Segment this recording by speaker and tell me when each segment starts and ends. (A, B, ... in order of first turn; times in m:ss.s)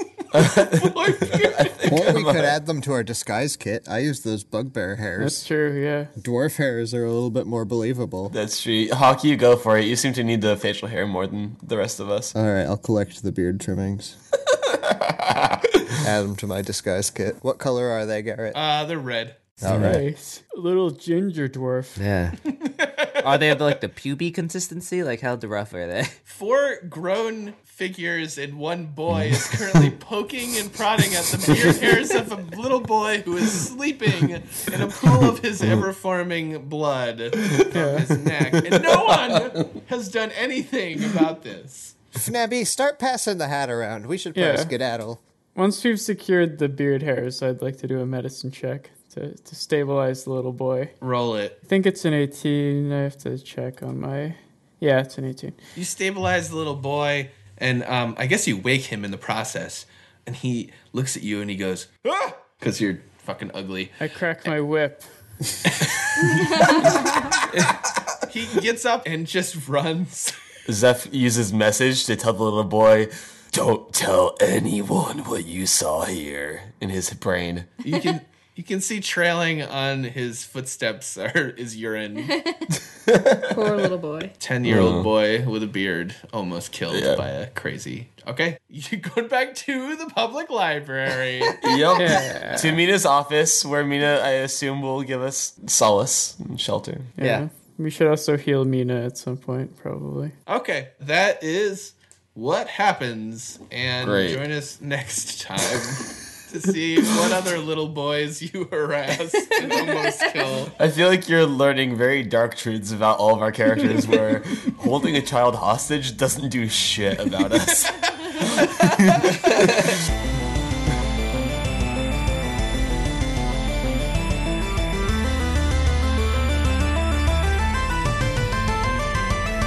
0:00.3-0:02.5 A
0:00.4-0:02.2 B
0:01.9-0:05.4 C
0:05.2-0:06.1 D
0:06.2-0:08.3 C
0:08.3-0:12.3 A
0:12.3-0:14.2 C
0:14.6-0:15.9 A
0:16.0-0:18.6 C
0:18.5-0:19.4 B
0:19.6-0:20.0 C
0:19.7-0:20.0 E
0:19.7-0:22.0 D
0:22.0-0:22.5 E
0:22.6-0:23.7 B
0:23.2-0:26.2 E
0:26.3-0:41.9 B
0:37.7-0:38.1 D
0:38.7-0:39.5 A
0:42.1-0:45.2 C
0:44.3-0:44.7 D
0:45.6-0:50.9 D
0:51.0-0:51.6 B
0:51.7-0:55.6 D
0:55.7-1:03.9 B
1:04.0-1:05.1 D
1:05.8-1:06.7 B
1:07.4-1:10.3 B
1:10.7-1:17.7 A
1:17.8-1:22.4 B
1:22.2-1:22.7 F
1:23.1-1:23.6 A
1:23.4-1:24.3 F
1:24.4-1:31.6 B
1:24.6-1:25.1 A
1:26.9-1:27.2 A
1:31.6-1:37.1 A
1:31.9-1:32.8 D
1:37.2-1:40.3 D
1:37.2-1:37.4 E
1:40.5-1:50.7 B
1:44.0-1:44.4 A
1:49.6-1:50.1 F
1:50.8-1:59.9 A